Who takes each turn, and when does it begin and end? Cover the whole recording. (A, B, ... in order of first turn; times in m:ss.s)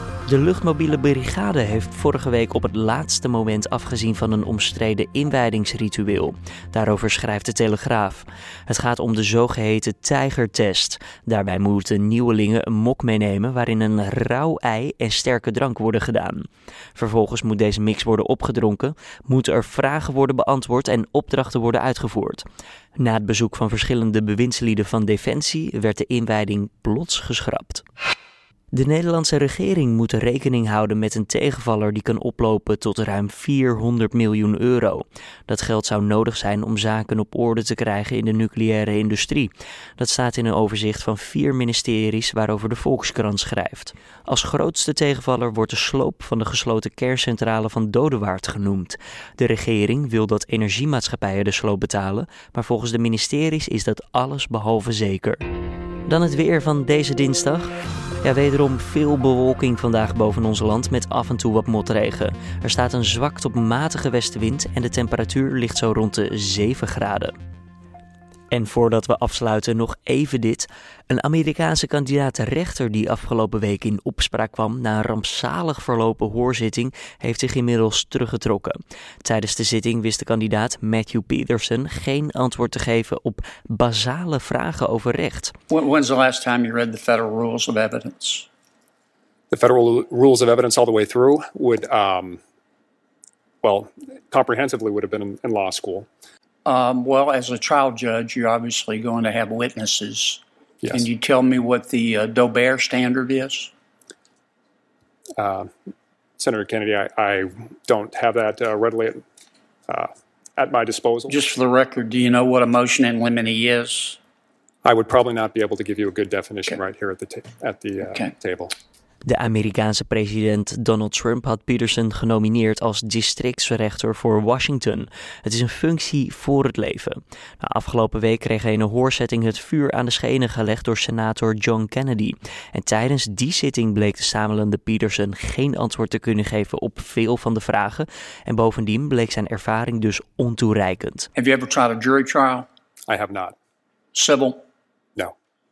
0:00.3-0:22.4 A
0:23.0-0:27.8 A
0:28.7-0:55.4 A
0:56.1-0:57.7 A
0:58.2-1:07.3 A
1:08.5-1:25.5 A
1:25.7-1:28.5 B
1:29.5-1:32.4 C
1:33.6-1:36.1 C
1:36.6-1:43.7 B
1:40.8-1:41.1 C
1:45.4-1:45.7 C
1:46.4-1:49.2 C
1:49.9-1:51.4 C
1:51.3-1:54.2 B
1:54.8-1:58.7 C
1:58.0-1:58.3 B
1:59.3-2:21.3 A
2:21.4-2:22.7 B
2:23.1-2:23.6 C
2:24.1-2:24.6 B